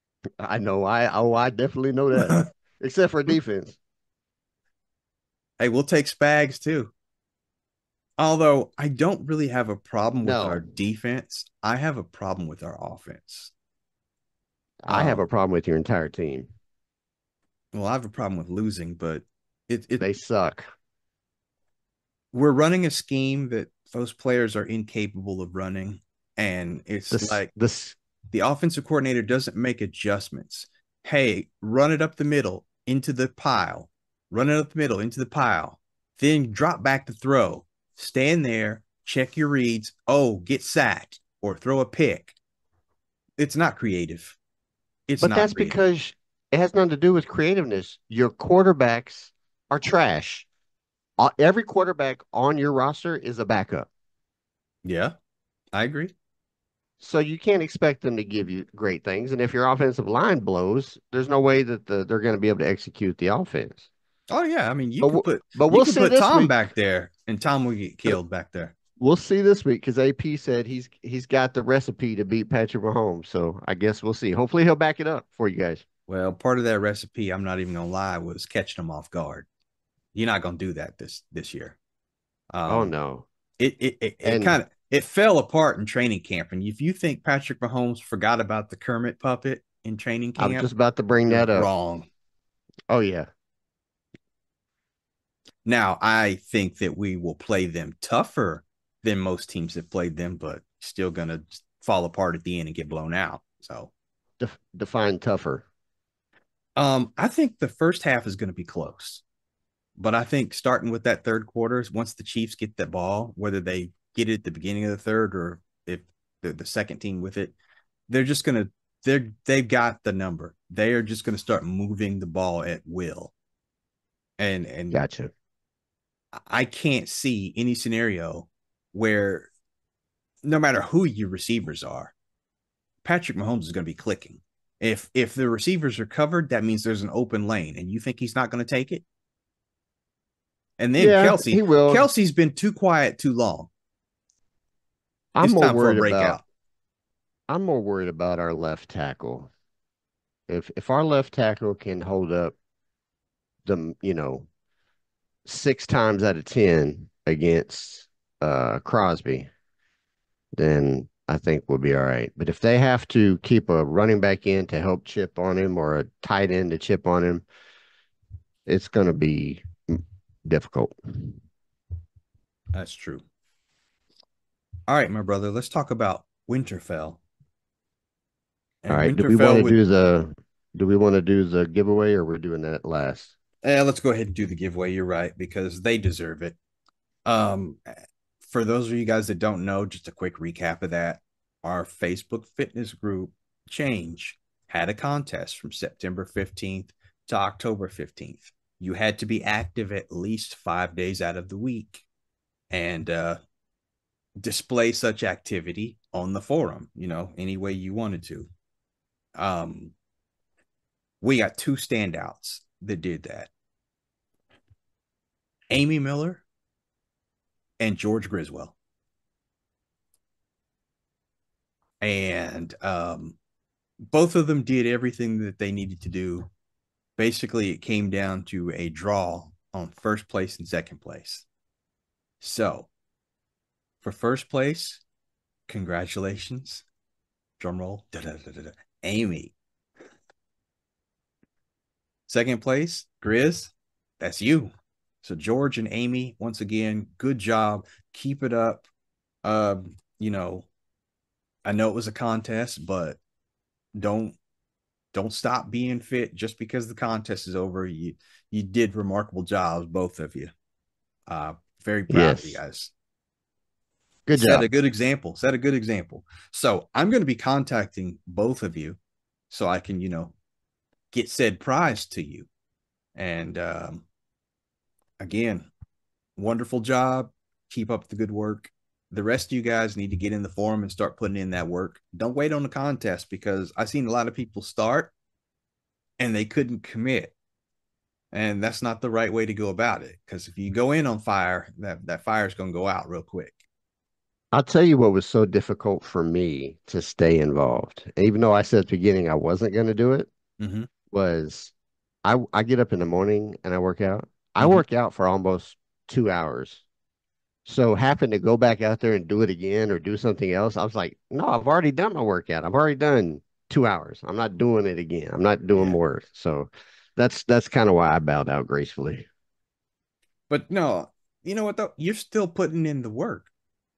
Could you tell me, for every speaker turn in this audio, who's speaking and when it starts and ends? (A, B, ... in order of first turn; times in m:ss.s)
0:00.4-0:03.8 A
0:02.1-0:02.5 B
0:05.6-0:06.9 B
0:08.2-0:13.5 B
0:10.2-0:10.6 A
0:14.9-0:16.5 A
0:14.9-0:15.2 B
0:17.7-0:20.1 B
0:20.0-0:20.6 A
0:22.3-0:27.5 B
0:27.1-0:28.0 A
0:28.3-0:42.4 B
0:43.4-0:44.4 B
0:45.1-0:45.8 B
0:45.2-0:50.5 A
0:51.2-0:53.9 A
0:54.8-0:55.1 B
0:55.7-0:56.1 B
0:57.0-1:03.9 A
1:04.3-1:08.7 B
1:05.0-1:06.5 A
1:09.0-1:15.8 A
1:16.1-1:19.5 B
1:20.2-1:21.8 B
1:22.5-1:22.9 B
1:22.7-1:23.3 A
1:23.6-1:30.7 B
1:24.2-1:24.6 A
1:30.4-1:31.7 A
1:31.3-1:32.1 B
1:32.9-1:33.3 A
1:35.7-1:43.9 B
1:44.4-1:45.7 A
1:46.8-1:49.2 B
1:50.0-1:57.6 B
1:58.1-2:03.3 B
2:04.4-2:05.0 B
2:04.9-2:05.3 A
2:06.3-2:09.5 B
2:10.4-2:12.1 B
2:13.0-2:19.0 B
2:20.8-2:23.7 B
2:21.0-2:22.1 A
2:25.4-2:26.4 A
2:25.4-2:26.4 B
2:27.5-2:29.5 A
2:30.5-2:32.6 A
2:33.6-2:34.5 A
2:35.5-2:39.5 A
2:40.6-2:47.4 A
2:48.7-2:51.4 A
2:52.7-2:53.2 B
2:54.9-2:57.2 B
2:58.8-2:59.8 B
2:58.9-3:03.3 A
3:03.6-3:06.6 B
3:07.3-3:22.0 B
3:22.7-3:23.4 B
3:24.4-3:28.5 B
3:29.4-3:29.9 B
3:31.2-3:33.5 B
3:35.7-3:36.4 B
3:37.8-3:38.8 B
3:42.0-3:43.4 B
3:44.0-3:46.5 B
3:47.2-3:51.4 B
3:52.4-3:52.9 B
3:54.0-3:55.0 B
3:55.7-3:56.8 B
3:57.6-3:59.5 B
4:02.3-4:04.7 B
4:05.2-4:08.8 B
4:09.4-4:10.7 B
4:11.6-4:13.2 B
4:14.0-4:14.4 B
4:15.1-4:20.5 B
4:21.3-4:22.9 B
4:22.1-4:22.6 A
4:24.3-4:24.7 A
4:24.4-4:29.0 B
4:29.5-4:30.3 B
4:31.1-4:32.5 B
4:33.2-4:34.0 B
4:35.2-4:35.7 B
4:36.4-4:45.1 B
4:46.2-4:47.3 B
4:48.3-4:53.6 B
4:54.5-5:00.3 A
5:00.6-5:00.9 B
5:01.1-5:01.7 A
5:02.2-5:06.8 A
5:07.6-5:19.3 A
5:20.5-5:23.5 B